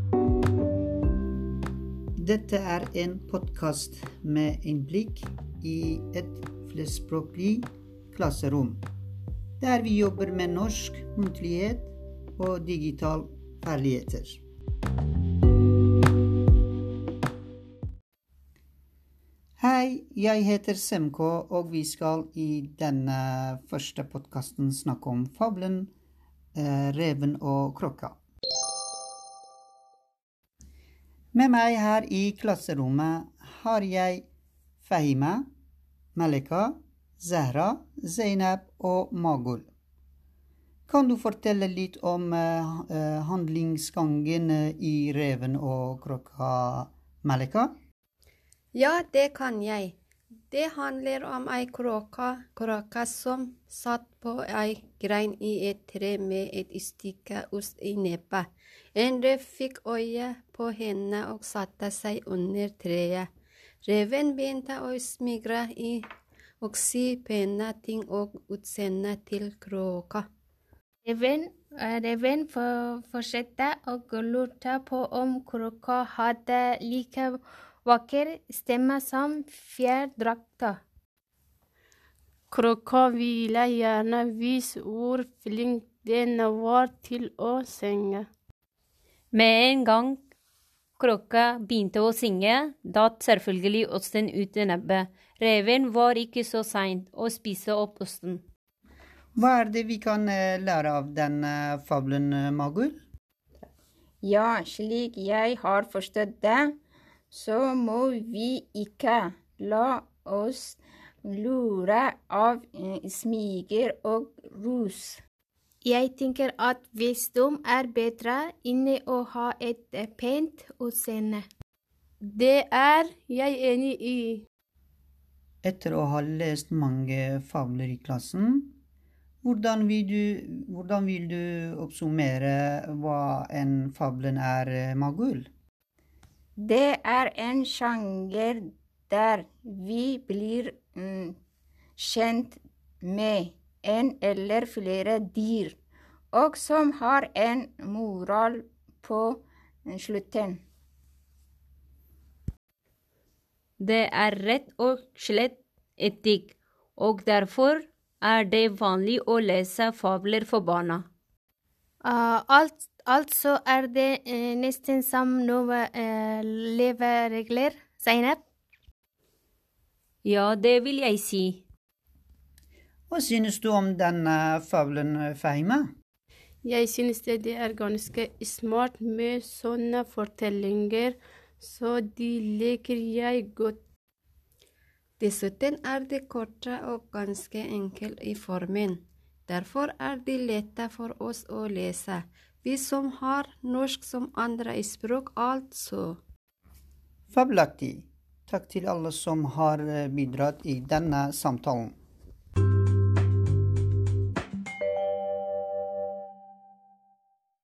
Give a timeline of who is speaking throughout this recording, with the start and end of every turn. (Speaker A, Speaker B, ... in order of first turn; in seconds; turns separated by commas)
Speaker A: 2.2-8.8, Speaker A: 9.6-14.4, Speaker A: 19.6-25.9, Speaker A: 26.5-28.2, Speaker A: 31.3-34.2, Speaker A: 34.8-35.5, Speaker A: 36.1-39.7, Speaker A: 40.9-47.7, Speaker B: 48.7-50.0, Speaker B: 50.5-63.3, Speaker B: 63.9-66.0, Speaker B: 66.6-70.2, Speaker C: 71.0-80.8, Speaker D: 82.5-88.3, Speaker E: 89.3-90.2, Speaker E: 91.0-98.4, Speaker A: 99.3-103.0, Speaker F: 104.2-106.8, Speaker F: 107.3-115.2, Speaker C: 115.8-121.4, Speaker D: 122.2-124.4, Speaker A: 125.6-128.8, Speaker A: 129.4-135.5, Speaker F: 136.6-141.4, Speaker F: 142.0-145.8, Speaker F: 146.3-150.6, Speaker E: 153.8-161.1, Speaker C: 162.0-168.4, Speaker E: 170.2-171.6, Speaker A: 173.1-175.9, Speaker D: 176.6-183.8, Speaker B: 185.2-196.2, Speaker A: 197.3-201.9